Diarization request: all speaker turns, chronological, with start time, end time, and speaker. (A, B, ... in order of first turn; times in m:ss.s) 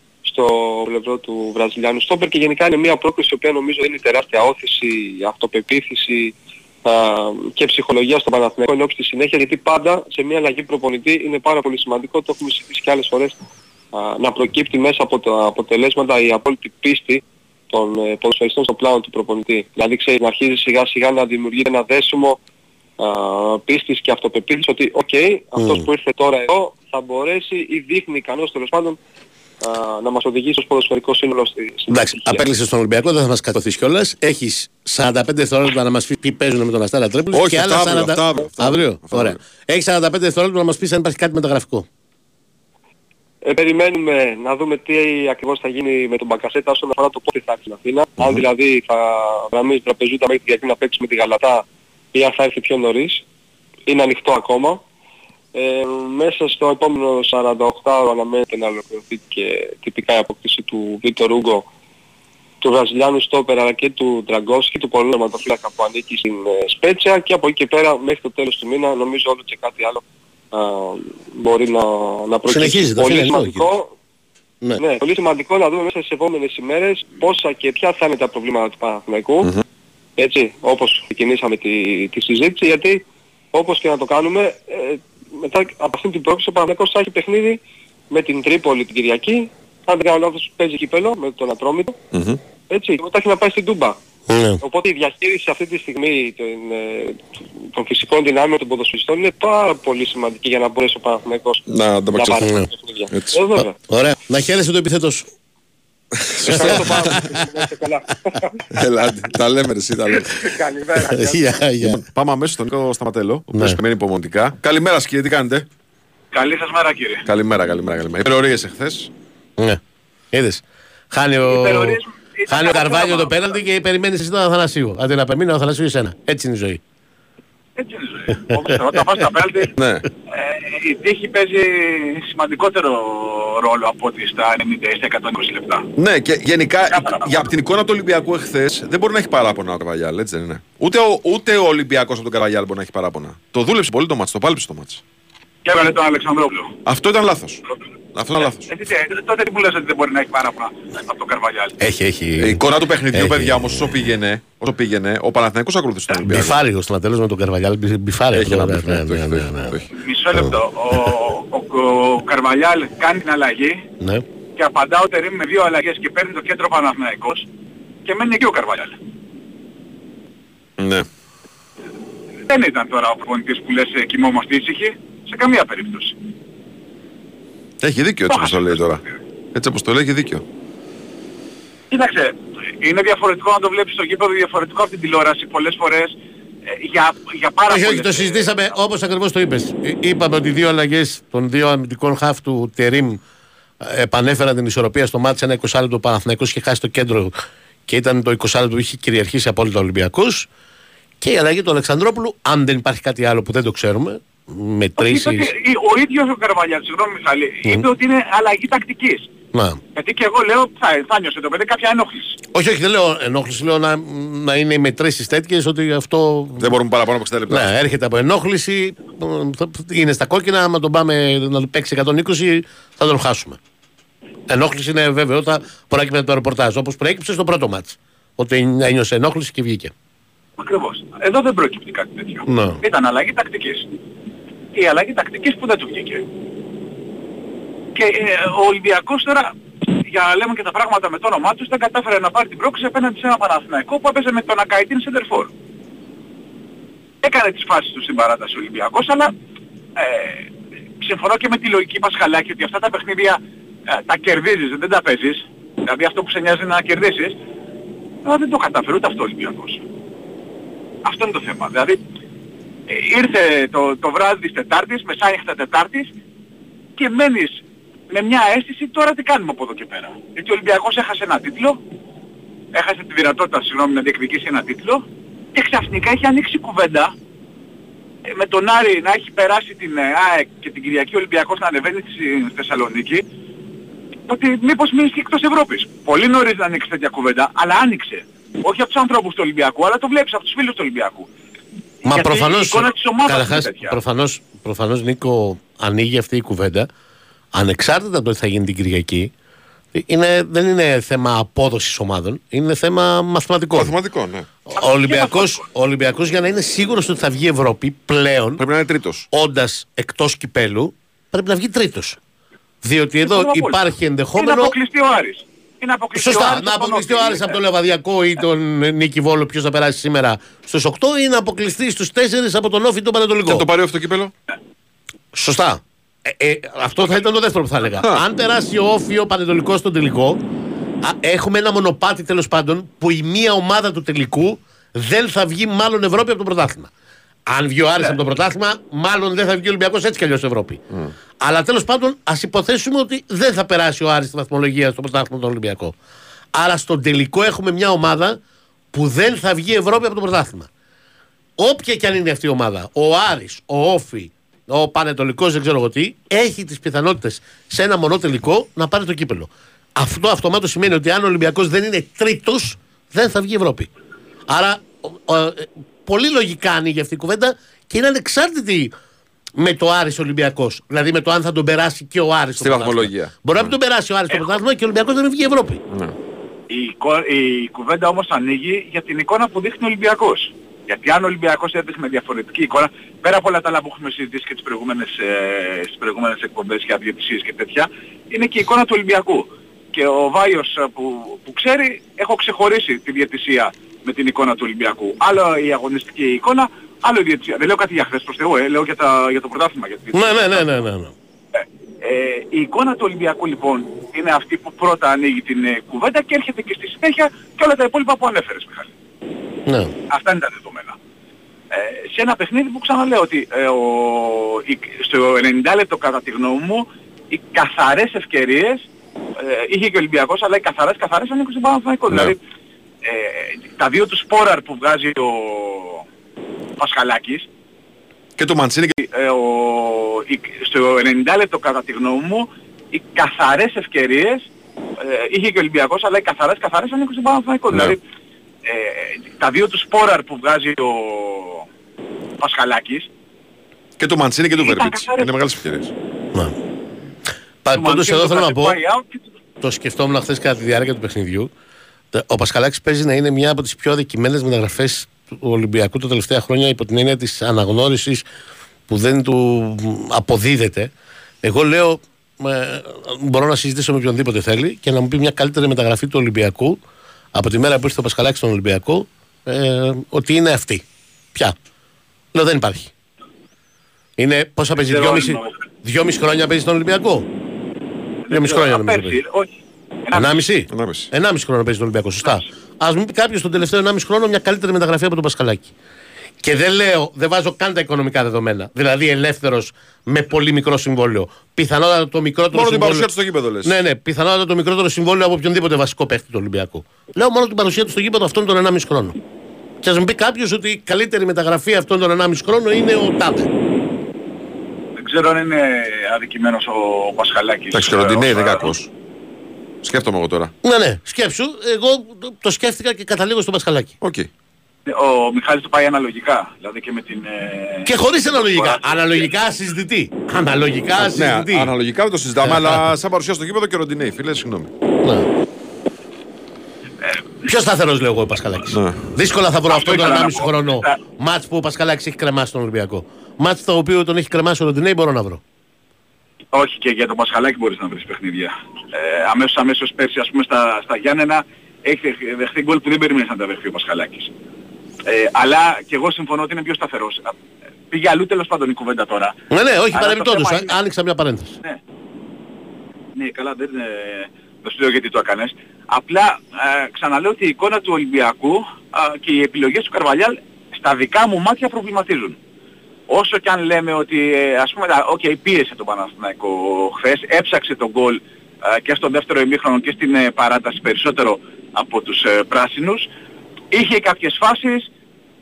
0:00.2-0:13.4 A
0:13.9-0:22.4 A
0:23.0-0:29.0 A
0:25.6-0:25.9 B
0:29.6-0:32.4 A
0:31.9-0:41.9 B
0:37.3-0:39.4 C
0:43.4-0:53.2 A
0:48.2-0:48.4 C
0:53.9-0:54.8 A
0:55.5-1:01.7 A
1:02.6-1:13.9 A
1:12.5-1:13.7 B
1:14.8-1:19.5 A
1:20.2-1:32.0 A
1:32.1-1:32.4 C
1:32.7-1:34.0 A
1:34.3-1:34.6 B
1:34.6-1:37.2 A
1:37.7-1:43.8 A
1:41.7-1:42.5 C
1:42.4-1:42.7 B
1:43.1-1:43.4 C
1:43.9-1:45.3 B
1:46.4-1:47.1 C
1:46.4-1:48.6 A
1:46.4-1:47.3 B
1:48.7-1:50.3 C
1:50.4-1:51.4 A
1:51.1-1:52.0 B
1:51.8-1:55.7 C
1:53.5-1:53.8 B
1:56.3-1:57.2 D
1:57.2-1:59.1 C
2:00.3-2:06.8 B
2:01.4-2:03.6 D
2:07.8-2:09.7 D
2:09.7-2:10.0 C
2:10.3-2:15.9 D
2:16.0-2:25.0 C
2:16.9-2:17.4 D
2:25.6-2:26.8 D
2:26.8-2:28.7 C
2:28.4-2:31.7 D
2:31.8-2:32.6 B
2:32.4-2:36.6 C
2:33.1-2:34.1 B
2:36.2-2:39.8 B
2:38.3-2:39.9 C
2:39.9-2:43.8 D
2:44.6-2:47.5 D
2:48.0-2:49.0 D
2:50.8-2:51.1 C
2:52.5-2:56.2 D
2:57.8-2:59.0 C
2:58.3-2:58.7 D
2:59.5-3:00.4 C
3:01.9-3:06.1 D
3:06.7-3:08.5 D
3:07.7-3:13.2 B
3:13.8-3:17.3 B
3:17.9-3:20.5 B
3:21.2-3:25.5 B
3:25.0-3:29.3 D
3:29.5-3:29.8 B
3:29.9-3:32.4 D
3:32.5-3:36.8 B
3:36.6-3:37.7 C
3:37.5-3:43.6 B
3:44.5-3:49.9 B
3:50.6-3:53.9 D
3:52.4-3:52.8 B
3:54.7-3:56.2 D
3:57.9-3:59.5 D
4:00.1-4:05.5 D
4:07.2-4:09.3 D
4:10.0-4:10.5 D
4:11.0-4:13.4 D
4:13.9-4:17.4 D
4:18.2-4:19.8 D
4:21.0-4:22.0 D
4:22.9-4:26.1 D
4:27.0-4:31.8 D
4:32.7-4:35.0 D
4:35.5-4:37.1 D
4:38.3-4:43.2 D
4:44.3-4:51.3 D
4:52.0-4:54.0 D
4:52.0-4:56.9 B
4:57.5-4:59.3 B
4:59.9-5:03.9 B
5:03.7-5:04.5 C
5:04.7-5:08.6 B
5:04.8-5:05.6 D
5:08.6-5:09.3 C
5:09.3-5:12.2 B
5:12.8-5:14.8 B
5:13.2-5:13.8 D
5:14.4-5:17.6 D
5:16.2-5:23.7 B
5:23.4-5:24.3 C
5:25.3-5:30.4 B
5:31.0-5:36.9 B
5:37.5-5:40.8 B
5:41.4-5:46.0 B
5:46.5-5:48.4 B
5:48.9-5:50.7 B
5:51.6-6:03.9 B
6:04.5-6:08.9 B
6:09.6-6:15.8 B
6:12.6-6:13.8 C
6:15.9-6:16.2 C
6:16.7-6:40.8 D
6:40.1-6:41.1 B
6:41.6-6:48.9 D
6:49.7-6:49.9 B
6:50.1-6:51.0 D
6:51.7-6:58.8 D
6:59.4-7:02.4 D
7:03.0-7:06.0 D
7:06.8-7:07.4 D
7:08.4-7:09.0 C
7:09.0-7:14.4 D
7:15.0-7:18.0 D
7:17.7-7:18.0 C
7:18.6-7:21.6 D
7:22.4-7:23.1 D
7:24.0-7:25.9 C
7:24.6-7:25.3 D
7:27.6-7:28.8 B
7:27.7-7:29.3 D
7:29.6-7:31.5 B
7:32.1-7:38.2 B
7:38.9-7:40.9 B
7:41.4-7:46.8 B
7:47.3-7:51.6 B
7:52.3-7:52.9 B
7:54.2-7:57.3 B
7:54.8-7:55.5 D
7:58.3-7:59.5 D
7:58.3-7:59.2 B
8:00.1-8:00.4 D
8:00.1-8:05.7 B
8:00.7-8:01.1 C
8:06.4-8:13.1 B
8:12.5-8:13.7 C
8:13.6-8:19.2 B
8:19.8-8:23.5 B
8:25.0-8:28.7 D
8:27.7-8:28.9 C
8:29.8-8:30.5 C
8:30.6-8:33.9 B
8:34.0-8:34.3 C
8:34.9-8:39.3 D
8:37.8-8:41.7 B
8:41.0-8:44.7 C
8:42.5-8:42.8 B
8:47.4-8:55.4 B
8:48.7-8:49.0 C
8:49.7-8:51.0 D
8:56.5-9:04.3 D
9:05.0-9:07.3 D
9:07.9-9:09.4 D
9:09.5-9:11.6 B
9:09.9-9:10.7 D
9:13.2-9:22.4 D
9:23.1-9:33.1 D
9:33.7-9:34.9 D